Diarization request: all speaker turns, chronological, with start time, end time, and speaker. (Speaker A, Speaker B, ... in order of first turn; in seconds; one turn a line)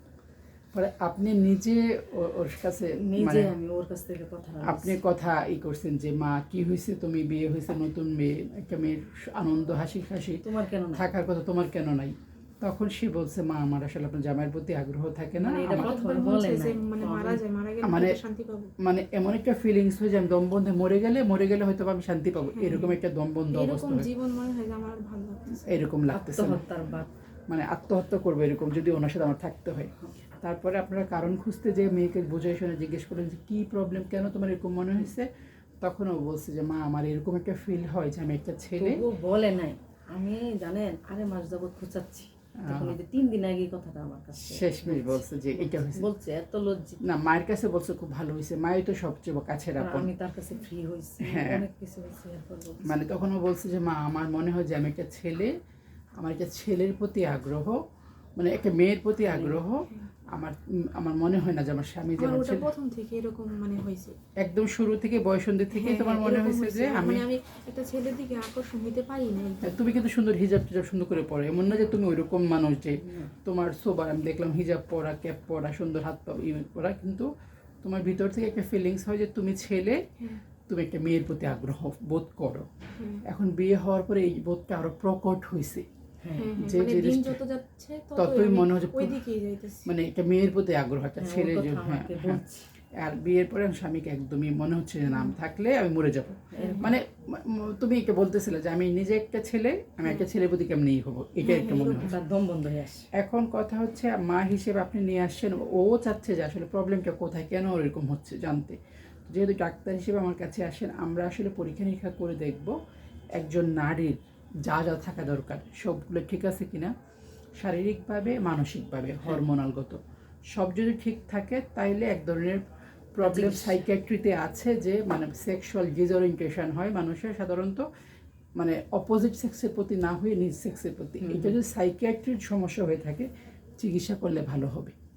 Speaker A: 0.7-3.5
Speaker B: 3.1-5.0
Speaker A: 4.6-16.0
Speaker B: 10.4-11.1
Speaker B: 15.4-17.4
Speaker C: 15.7-18.7
Speaker A: 17.8-18.2
Speaker A: 18.8-24.1
Speaker C: 22.5-23.0
Speaker C: 23.5-25.6
Speaker A: 25.5-26.6
Speaker B: 26.1-27.1
Speaker A: 27.5-35.3
Speaker A: 35.8-39.0
Speaker B: 38.8-47.0
Speaker A: 42.6-43.0
Speaker A: 44.4-46.1
Speaker A: 47.0-50.1
Speaker B: 49.8-52.9
Speaker A: 51.2-51.7
Speaker A: 52.9-55.5
Speaker A: 56.2-57.8
Speaker A: 58.4-62.7
Speaker B: 59.2-59.6
Speaker C: 62.2-64.2
Speaker A: 64.4-67.3
Speaker C: 65.8-69.8
Speaker A: 69.6-77.3
Speaker B: 73.0-73.3
Speaker A: 77.8-80.0
Speaker A: 80.7-82.7
Speaker C: 83.0-83.2
Speaker A: 83.2-85.8
Speaker B: 86.2-86.5
Speaker C: 86.4-89.9
Speaker A: 86.6-87.4
Speaker A: 88.2-89.2
Speaker A: 89.9-92.4
Speaker B: 91.2-92.7
Speaker A: 93.0-102.2
Speaker B: 96.5-97.0
Speaker C: 96.6-96.9
Speaker C: 101.4-102.2
Speaker B: 101.5-103.0
Speaker A: 103.2-112.7
Speaker A: 113.4-116.9
Speaker A: 117.6-120.0
Speaker A: 120.5-122.6
Speaker A: 123.2-127.8
Speaker B: 123.2-123.8
Speaker A: 128.6-134.9
Speaker B: 131.2-131.6